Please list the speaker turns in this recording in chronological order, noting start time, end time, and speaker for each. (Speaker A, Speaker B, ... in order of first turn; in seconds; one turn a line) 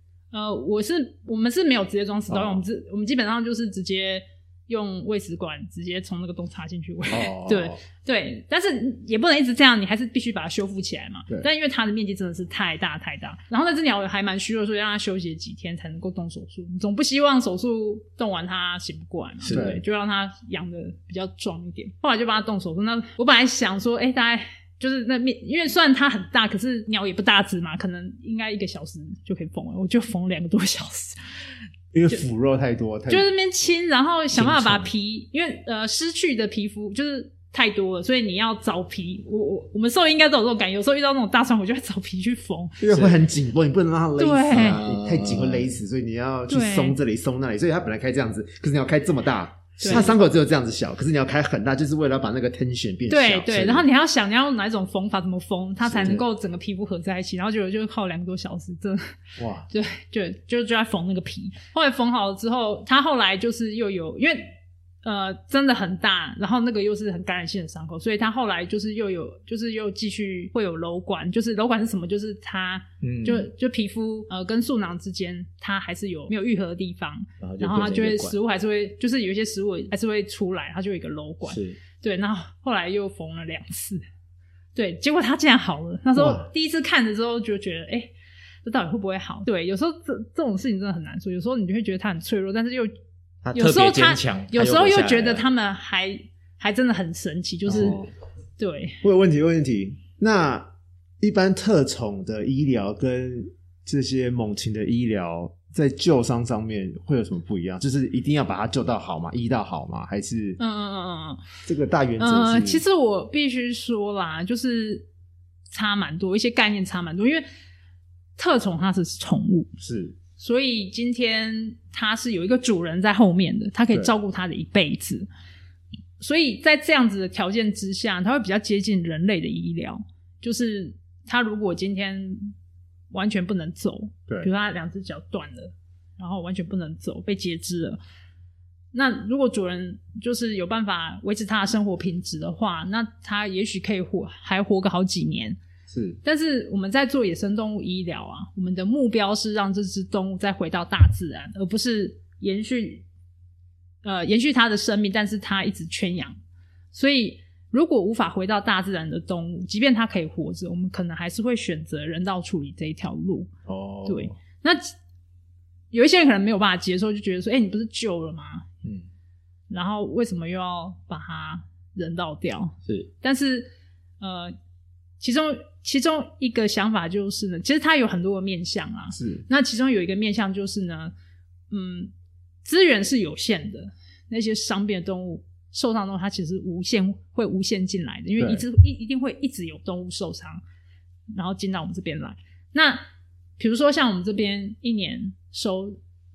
Speaker A: 0.3-31.2
Speaker B: 2.3-2.6
Speaker B: 7.1-7.8
Speaker C: 19.4-19.8
Speaker B: 19.5-19.8
Speaker B: 31.9-33.3
Speaker A: 33.1-42.8
Speaker C: 34.4-34.9
Speaker B: 42.8-53.9
Speaker C: 42.9-43.2
Speaker A: 44.2-44.8
Speaker C: 44.5-45.6
Speaker A: 46.5-47.0
Speaker A: 49.8-50.1
Speaker C: 49.8-50.1
Speaker A: 53.1-59.1
Speaker B: 55.8-56.2
Speaker B: 59.4-59.7
Speaker A: 59.7-64.5
Speaker A: 65.0-84.0
Speaker C: 73.0-73.5
Speaker C: 77.4-78.3
Speaker C: 81.5-81.8
Speaker A: 84.8-88.1
Speaker B: 86.2-86.5
Speaker A: 88.7-92.9
Speaker C: 93.4-95.4
Speaker A: 93.5-98.0
Speaker B: 97.7-98.1
Speaker A: 98.6-99.0
Speaker B: 99.0-110.6
Speaker A: 110.6-111.4
Speaker B: 111.7-112.8
Speaker A: 112.2-115.1
Speaker A: 115.7-117.5
Speaker A: 118.4-119.7
Speaker B: 119.8-120.2
Speaker A: 120.4-125.3
Speaker A: 126.2-132.5
Speaker A: 133.1-138.0
Speaker A: 138.9-145.6
Speaker B: 145.9-146.2
Speaker A: 146.2-153.1
Speaker A: 154.0-156.4
Speaker A: 156.9-163.5
Speaker B: 163.7-164.3
Speaker A: 164.1-164.9
Speaker A: 165.9-168.7
Speaker A: 169.7-174.6
Speaker A: 175.2-181.1
Speaker B: 179.1-179.4
Speaker A: 181.7-182.1
Speaker A: 182.6-190.6
Speaker B: 188.4-188.7
Speaker A: 191.4-193.1
Speaker A: 193.6-196.0